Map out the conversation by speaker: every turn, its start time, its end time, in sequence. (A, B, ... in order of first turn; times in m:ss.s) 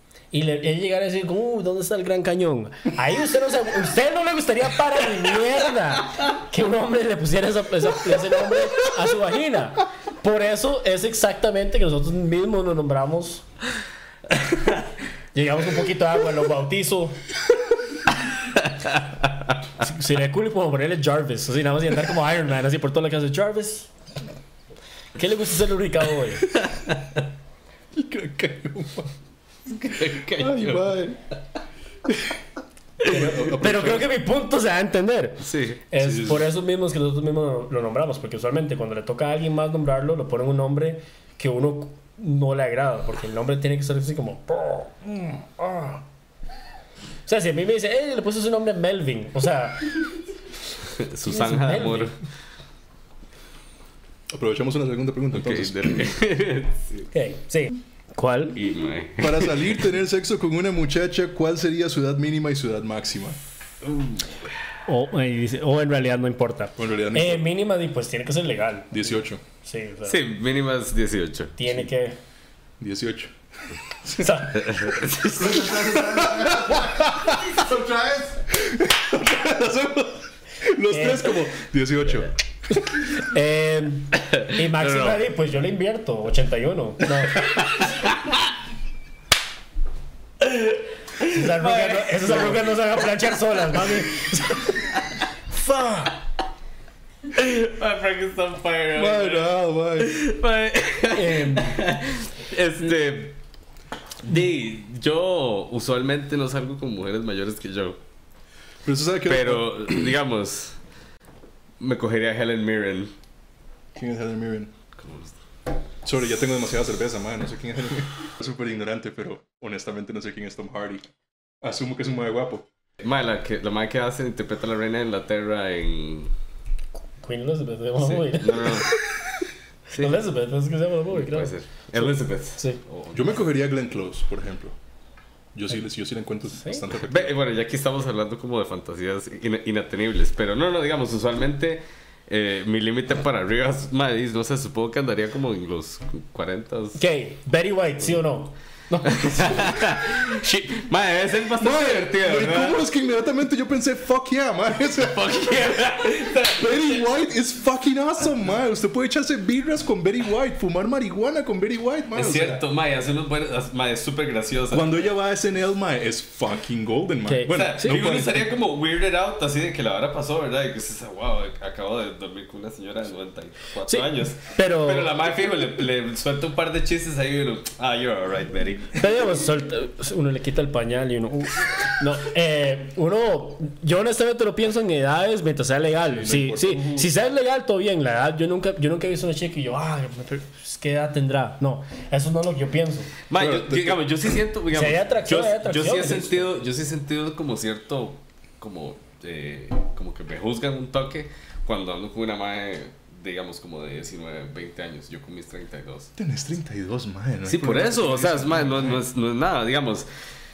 0:00.3-0:13.4 A
0:15.3-0:17.2 A
0:19.8-0:23.9 A
0:25.1-0:26.5 A
0:26.7-0:27.2 B
0:27.9-0:29.1 C
0:29.7-0:31.0 B
0:30.2-0:31.2 C
0:33.0-0:46.0 A
0:33.1-0:34.1 C
0:35.4-0:35.8 B
0:36.0-0:36.5 C
0:47.2-0:50.0 A
0:51.0-0:52.1 B
0:51.2-0:52.1 A
0:54.3-0:56.1 C
0:55.3-0:57.1 B
0:57.1-0:58.6 A
0:58.6-0:59.8 B
0:59.2-1:03.4 C
1:03.8-1:04.3 B
1:04.8-1:09.0 A
1:06.8-1:07.5 C
1:08.9-1:09.4 C
1:09.6-1:10.2 A
1:10.0-1:11.5 B
1:11.6-1:12.2 A
1:12.8-1:14.4 C
1:14.2-1:14.6 A
1:14.5-1:15.8 B
1:15.4-1:22.3 C
1:20.9-1:21.3 A
1:22.8-1:27.5 A
1:24.1-1:25.2 B
1:27.6-1:28.1 B
1:30.4-1:30.8 B
1:31.2-1:34.9 A
1:31.4-1:32.7 B
1:35.5-1:36.1 A
1:37.3-1:43.3 B
1:38.9-1:40.2 C
1:41.1-1:41.8 A
1:44.2-1:48.0 B
1:48.8-1:50.1 C
1:49.3-1:50.8 B
1:51.8-1:53.1 B
1:53.9-1:54.7 C
1:55.0-1:55.3 B
1:56.0-2:01.0 C
2:01.6-2:02.7 C
2:03.0-2:06.3 B
2:07.2-2:08.9 A
2:08.0-2:09.0 B
2:09.9-2:10.2 B
2:10.0-2:12.8 A
2:11.1-2:13.4 B
2:13.1-2:14.8 C
2:15.5-2:17.4 C
2:16.5-2:16.8 A
2:17.0-2:27.0 B
2:27.0-2:29.8 A
2:29.2-2:32.8 B
2:31.6-2:35.4 C
2:35.0-2:37.1 B
2:36.4-2:42.6 C
2:42.1-2:45.0 B
2:44.7-2:48.6 C
2:47.2-2:47.6 A
2:47.4-2:59.2 B
2:53.9-2:55.2 A
2:59.0-3:13.1 A
3:06.0-3:07.1 C
3:13.3-3:26.1 B
3:13.3-3:14.2 C
3:14.7-3:16.5 A
3:26.2-3:29.0 C
3:27.4-3:30.1 B